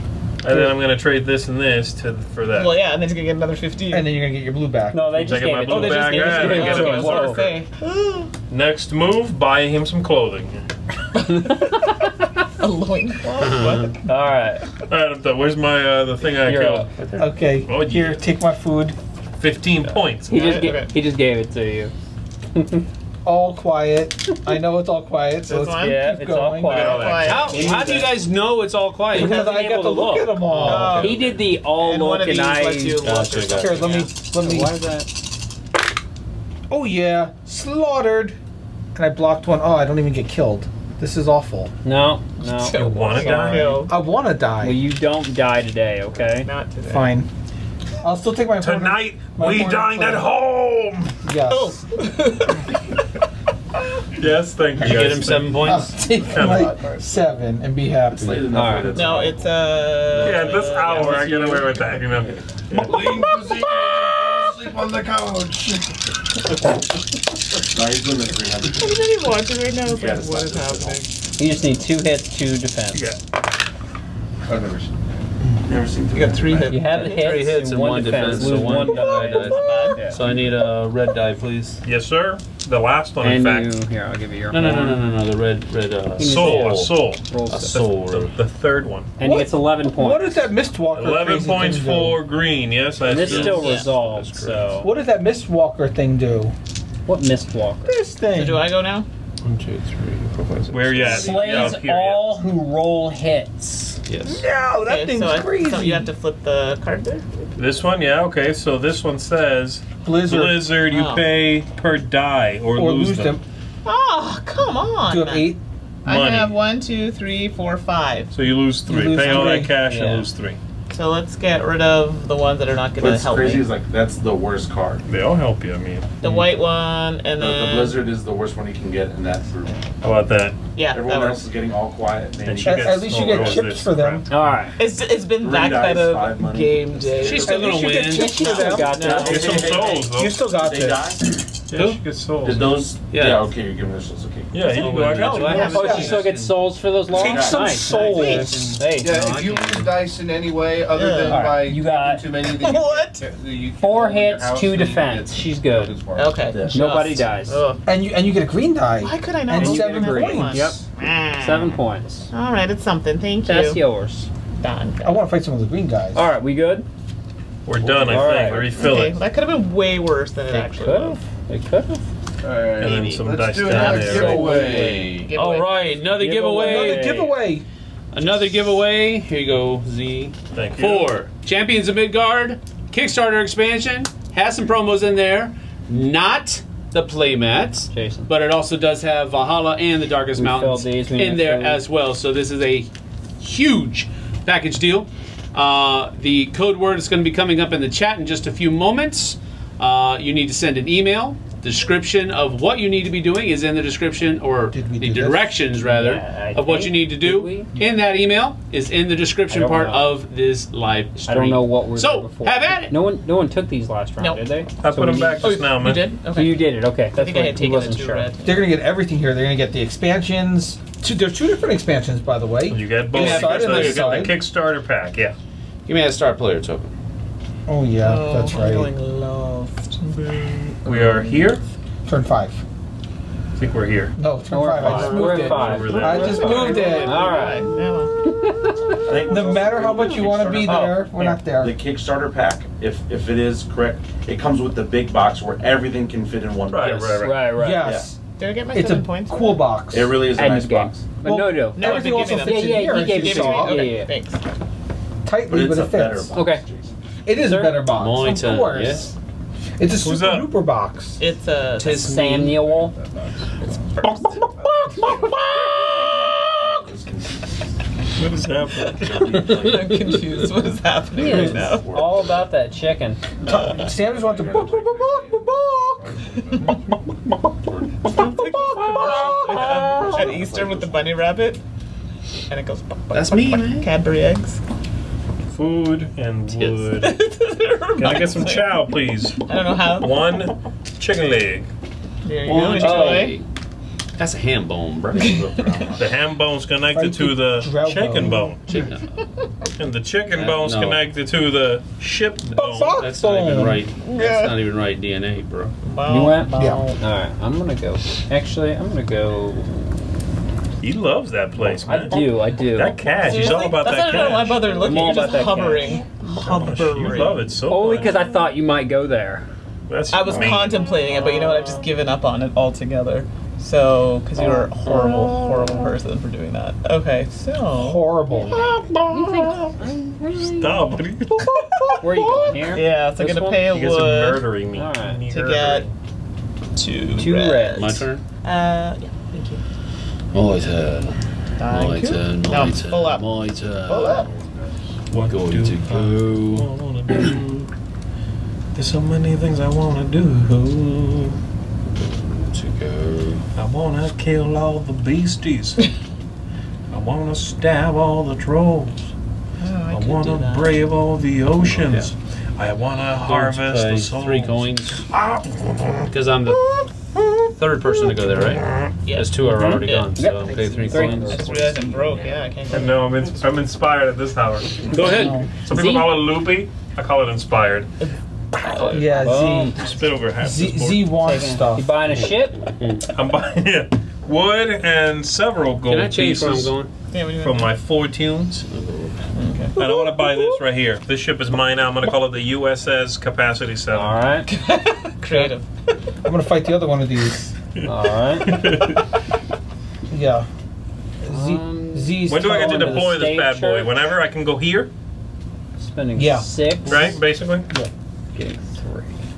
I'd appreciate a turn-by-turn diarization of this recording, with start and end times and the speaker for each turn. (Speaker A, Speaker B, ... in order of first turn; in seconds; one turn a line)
Speaker A: 0.4-2.8
Speaker B: 2.5-4.1
Speaker C: 3.9-6.5
Speaker D: 4.9-7.5
Speaker A: 5.2-7.5
Speaker B: 5.7-8.3
Speaker A: 8.5-10.7
Speaker B: 11.2-11.9
Speaker D: 11.3-11.7
Speaker B: 12.6-13.9
Speaker E: 13.4-13.9
Speaker D: 13.7-14.7
Speaker A: 14.9-16.9
Speaker D: 16.4-16.9
Speaker E: 17.0-17.4
Speaker C: 17.2-19.0
Speaker A: 17.7-18.2
Speaker A: 19.4-20.6
Speaker B: 20.3-20.9
Speaker D: 20.3-21.9
Speaker D: 22.6-22.8
Speaker C: 23.2-27.9
Speaker B: 25.4-26.0
Speaker D: 25.8-28.2
Speaker B: 26.7-28.0
Speaker A: 26.7-27.5
Speaker E: 27.2-29.8
Speaker C: 29.1-31.2
Speaker B: 29.1-29.6
Speaker D: 29.4-33.0
Speaker E: 30.5-30.9
Speaker B: 30.6-34.1
Speaker E: 33.0-34.1
Speaker C: 33.5-34.8
Speaker D: 34.3-35.1
Speaker C: 36.7-38.4
Speaker C: 39.0-41.7
Speaker D: 41.8-43.9
Speaker B: 42.4-44.0
Speaker A: 42.7-43.9
Speaker C: 43.9-44.9
Speaker D: 44.6-46.5
Speaker B: 46.4-47.2
Speaker C: 46.8-47.3
Speaker C: 48.0-50.3
Speaker A: 48.6-51.2
Speaker C: 51.2-51.9
Speaker B: 51.4-52.7
Speaker A: 54.2-56.7
Speaker E: 54.8-56.7
Speaker C: 55.6-58.6
Speaker F: 58.1-59.6
Speaker D: 58.5-59.0
Speaker B: 58.9-61.8
Speaker A: 60.2-63.3
Speaker G: 62.7-66.0
Speaker B: 63.4-63.8
Speaker F: 67.7-69.1
Speaker B: 68.8-71.1
Speaker F: 69.8-71.0
Speaker D: 71.4-73.0
Speaker A: 72.9-73.2
Speaker G: 74.5-75.0
Speaker F: 75.7-76.8
Speaker B: 76.1-77.5
Speaker D: 76.7-80.2
Speaker E: 76.7-81.8
Speaker C: 78.8-79.8
Speaker B: 79.3-80.1
Speaker A: 81.8-83.7
Speaker D: 83.2-85.0
Speaker E: 84.5-87.0
Speaker D: 86.2-87.8
Speaker A: 86.2-89.1
Speaker E: 87.5-88.3
Speaker D: 89.2-90.5
Speaker C: 89.2-92.2
Speaker A: 91.0-94.8
Speaker D: 93.1-94.9
Speaker E: 93.1-94.6
Speaker B: 93.5-93.9
Speaker C: 94.8-96.5
Speaker D: 97.1-98.0
Speaker C: 97.8-98.7
Speaker B: 98.3-99.1
Speaker E: 99.4-101.8
Speaker A: 100.7-102.4
Speaker D: 101.0-104.0
Speaker E: 104.1-104.5
Speaker C: 104.2-106.1
Speaker B: 104.8-107.3
Speaker A: 107.6-113.4
Speaker C: 110.0-110.8
Speaker B: 110.9-111.3
Speaker C: 112.8-113.4
Speaker B: 113.8-115.5
Speaker C: 115.1-115.6
Speaker A: 116.0-116.5
Speaker B: 116.0-118.3
Speaker A: 118.3-120.6
Speaker C: 118.9-120.2
Speaker B: 120.9-123.7
Speaker F: 123.0-125.0
Speaker A: 125.1-126.2
Speaker B: 126.2-128.0
Speaker F: 127.4-129.8
Speaker A: 130.0-130.6
Speaker B: 130.8-131.4
Speaker F: 130.9-133.6
Speaker A: 132.4-134.4
Speaker C: 132.6-134.3
Speaker D: 134.3-134.8
Speaker B: 134.8-137.6
Speaker F: 135.4-137.6
Speaker E: 137.2-138.8
Speaker C: 137.4-141.2
Speaker D: 138.0-139.7
Speaker B: 138.4-140.0
Speaker A: 139.0-140.3
Speaker F: 139.0-141.2
Speaker A: 141.7-142.8
Speaker F: 142.4-145.5
Speaker E: 143.1-143.5
Speaker A: 144.5-145.8
Speaker E: 144.7-146.7
Speaker C: 145.4-146.2
Speaker D: 145.6-149.9
Speaker C: 147.1-148.8
Speaker F: 147.1-147.8
Speaker E: 147.8-149.9
Speaker G: 148.9-156.7
Speaker B: 150.9-151.6
Speaker D: 151.2-152.2
Speaker B: 152.4-153.3
Speaker D: 153.8-156.0
Speaker B: 156.2-157.8
Speaker F: 156.5-157.1
Speaker D: 156.7-157.6
Speaker C: 157.8-160.8
Speaker B: 159.0-161.8
Speaker D: 159.6-160.8
Speaker D: 161.4-162.3
Speaker B: 162.3-163.8
Speaker D: 163.4-164.3
Speaker B: 164.6-165.3
Speaker C: 165.0-166.3
Speaker D: 166.1-166.9
Speaker A: 167.7-169.2
Speaker E: 167.8-168.8
Speaker D: 168.0-168.7
Speaker B: 168.8-171.2
Speaker D: 170.5-172.0
Speaker G: 172.4-175.3
Speaker A: 172.8-174.5
Speaker E: 172.8-173.4
Speaker D: 173.7-175.1
Speaker B: 173.7-176.0
Speaker E: 175.3-177.3
Speaker D: 176.1-177.3
Speaker C: 176.5-177.7
Speaker E: 178.1-213.0
Speaker A: 180.6-181.2
Speaker D: 187.9-188.3
Speaker D: 190.3-191.8
Speaker C: 204.7-205.6
Speaker D: 205.8-207.8
Speaker D: 209.5-210.2
Speaker D: 211.3-215.6
Speaker B: 214.2-214.5
Speaker A: 214.8-216.1
Speaker B: 215.4-218.7
Speaker D: 216.3-218.3
Speaker C: 218.4-224.4
Speaker A: 222.7-225.4
Speaker E: 223.1-224.2
Speaker E: 225.9-226.9
Speaker C: 227.7-228.9
Speaker B: 228.0-231.5
Speaker A: 230.8-231.6
Speaker C: 232.1-232.6
Speaker A: 233.6-234.2
Speaker C: 234.2-237.5
Speaker D: 234.5-237.7
Speaker A: 234.8-236.9
Speaker B: 235.8-238.2
Speaker D: 238.2-238.9
Speaker F: 239.1-248.1
Speaker C: 239.2-241.8
Speaker B: 240.6-241.1
Speaker A: 246.7-247.5
Speaker D: 247.2-248.0
Speaker C: 247.5-250.3
Speaker B: 248.4-249.8
Speaker F: 249.9-250.9
Speaker D: 250.3-254.1
Speaker C: 251.2-253.9
Speaker B: 251.7-254.4
Speaker C: 255.2-256.4
Speaker F: 255.4-256.9
Speaker D: 256.3-256.6
Speaker C: 257.2-259.1
Speaker D: 257.4-257.9
Speaker E: 257.9-259.1
Speaker C: 259.8-261.2
Speaker A: 260.0-260.5
Speaker B: 261.2-262.2
Speaker E: 261.8-262.7
Speaker D: 261.8-262.9
Speaker G: 263.0-264.1
Speaker C: 264.0-266.8
Speaker G: 266.8-267.2
Speaker A: 268.1-269.4
Speaker B: 268.8-271.9
Speaker G: 269.1-270.2
Speaker D: 271.1-273.2
Speaker F: 271.3-271.8
Speaker G: 271.7-272.4
Speaker C: 273.4-276.1
Speaker G: 273.5-276.7
Speaker C: 278.0-280.1
Speaker B: 278.1-281.6
Speaker G: 280.3-281.1
Speaker B: 282.5-284.6
Speaker E: 283.1-283.9
Speaker A: 285.5-287.1
Speaker E: 286.5-286.8
Speaker B: 286.9-288.9
Speaker A: 288.0-291.7
Speaker B: 289.5-290.2
Speaker B: 292.2-293.4
Speaker E: 292.4-293.5
Speaker E: 294.2-295.9
Speaker B: 295.1-295.9
Speaker A: 296.0-298.7
Speaker C: 296.9-298.9
Speaker B: 298.7-299.5
Speaker E: 298.7-299.1
Speaker A: 299.8-303.0
Speaker E: 300.3-301.0
Speaker C: 302.5-303.9
Speaker E: 303.0-305.8
Speaker B: 304.0-304.6
Speaker B: 305.8-307.0
Speaker D: 306.1-310.1
Speaker C: 306.5-307.0
Speaker A: 310.8-314.8
Speaker D: 311.9-313.7
Speaker B: 313.2-317.1
Speaker D: 314.8-316.0
Speaker A: 316.3-318.2
Speaker D: 317.7-319.4
Speaker A: 319.9-321.7
Speaker B: 320.1-329.7
Speaker E: 324.4-325.9
Speaker C: 327.7-328.6
Speaker D: 329.1-330.9
Speaker A: 330.6-331.5
Speaker C: 331.3-332.6
Speaker B: 331.5-334.4
Speaker D: 332.0-333.7
Speaker A: 333.5-335.9
Speaker D: 334.8-335.2
Speaker B: 335.3-335.9
Speaker B: 336.8-339.6
Speaker D: 337.2-337.9
Speaker E: 337.8-338.2
Speaker E: 340.3-344.5
Speaker B: 341.6-343.3
Speaker B: 343.9-344.3
Speaker G: 344.2-344.7
Speaker A: 345.1-347.7
Speaker E: 345.2-346.7
Speaker A: 348.8-351.4
Speaker E: 352.0-353.4
Speaker A: 353.6-355.9
Speaker A: 356.9-359.1
Speaker B: 359.6-360.8
Speaker A: 359.9-364.7
Speaker E: 361.6-362.1
Speaker E: 363.2-365.1
Speaker A: 365.2-366.1
Speaker E: 366.1-366.6
Speaker E: 367.6-372.0
Speaker A: 368.3-368.9
Speaker B: 369.1-373.4
Speaker D: 369.5-371.6
Speaker A: 372.7-377.9
Speaker D: 374.9-376.1
Speaker C: 375.0-375.5
Speaker E: 375.0-375.3
Speaker B: 378.0-379.4
Speaker E: 378.7-379.2
Speaker C: 378.8-381.9
Speaker D: 379.2-379.8
Speaker A: 379.8-381.1
Speaker D: 381.2-382.6
Speaker E: 382.0-383.1
Speaker A: 383.1-386.8
Speaker E: 385.9-386.9
Speaker B: 387.1-387.7
Speaker A: 387.4-388.6
Speaker E: 388.7-389.4
Speaker B: 389.3-390.6
Speaker A: 389.8-394.2
Speaker D: 393.9-394.5
Speaker B: 394.5-396.0
Speaker C: 396.2-397.5
Speaker A: 397.8-399.0
Speaker D: 397.9-398.5
Speaker C: 400.1-400.5
Speaker C: 401.2-403.1
Speaker D: 401.3-403.9
Speaker A: 402.3-404.9
Speaker D: 405.8-407.0
Speaker C: 406.2-407.1
Speaker A: 406.9-407.7
Speaker D: 408.4-409.1